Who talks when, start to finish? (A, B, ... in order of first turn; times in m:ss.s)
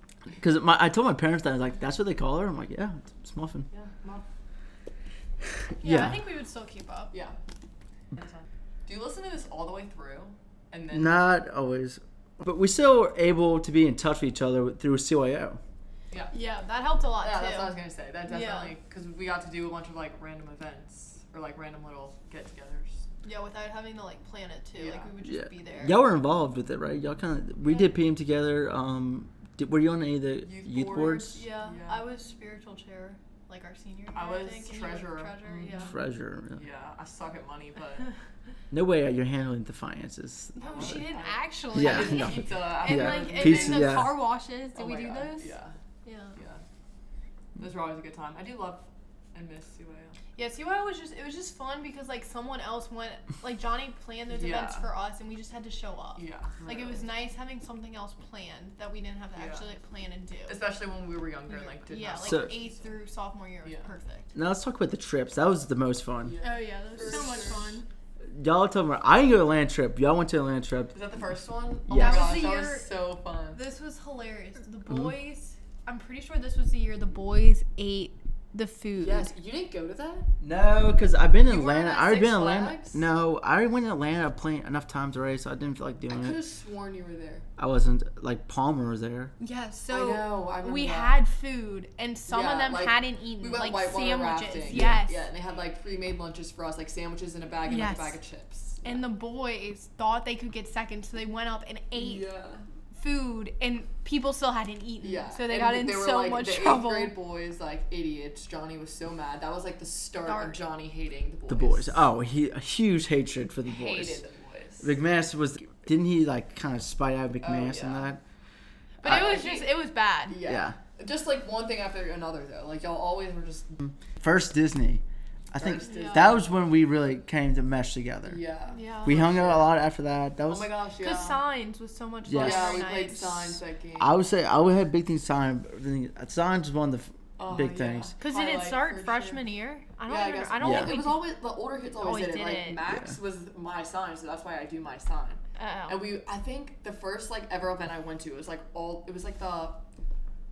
0:00.4-0:03.7 A
0:03.7-0:04.2 B
0:05.8-0:06.2 A
0:05.8-0:07.1 C
0:08.1-0:11.3 B
0:10.9-0:15.6 A
0:16.3-0:18.7 C
0:17.2-0:23.0 B
0:23.2-0:26.0 C
0:24.7-0:25.1 B
0:25.2-0:31.4 A
0:30.4-0:32.0 B
0:31.0-0:36.0 C
0:34.1-0:36.0 B
0:35.8-0:36.6 A
0:36.5-0:38.1 B
0:38.7-0:41.0 A
0:40.6-0:45.5 C
0:40.6-0:44.1 B
0:41.7-0:44.1 A
0:44.7-0:45.7 B
0:46.0-0:46.4 C
0:46.4-0:46.6 B
0:47.6-0:50.2 B
0:50.4-1:00.6 C
0:54.3-0:54.8 B
0:56.2-0:57.0 B
0:59.4-0:59.6 B
1:00.5-1:02.8 B
1:01.5-1:04.3 C
1:04.3-1:06.3 A
1:06.2-1:07.8 B
1:06.4-1:07.9 C
1:08.3-1:11.0 A
1:10.9-1:13.6 B
1:11.9-1:12.4 A
1:11.9-1:12.9 C
1:13.5-1:19.3 C
1:19.0-1:20.3 B
1:20.4-1:26.4 A
1:21.5-1:22.4 C
1:21.7-1:23.0 B
1:26.1-1:27.5 B
1:27.6-1:29.3 A
1:29.4-1:35.3 C
1:29.9-1:31.2 B
1:32.3-1:39.0 B
1:34.7-1:35.0 A
1:37.6-1:38.2 C
1:38.8-1:42.3 C
1:41.9-1:42.6 B
1:42.9-1:47.1 C
1:45.0-1:52.0 B
1:50.2-1:50.6 C
1:51.5-1:54.2 A
1:53.6-1:54.9 B
1:54.8-1:58.2 A
1:57.4-1:58.1 B
1:59.0-2:00.4 C
1:59.0-2:03.8 B
2:00.4-2:00.8 A
2:03.8-2:08.4 A
2:05.6-2:06.5 B
2:05.8-2:06.3 C
2:08.2-2:09.8 B
2:08.7-2:09.2 C
2:09.0-2:10.7 A
2:10.5-2:11.4 B
2:11.0-2:13.6 C
2:12.3-2:12.8 A
2:12.3-2:14.1 B
2:14.0-2:18.1 A
2:17.4-2:19.4 B
2:18.2-2:21.2 C
2:20.1-2:29.8 B
2:20.6-2:21.0 A
2:22.0-2:22.8 C
2:25.6-2:26.1 C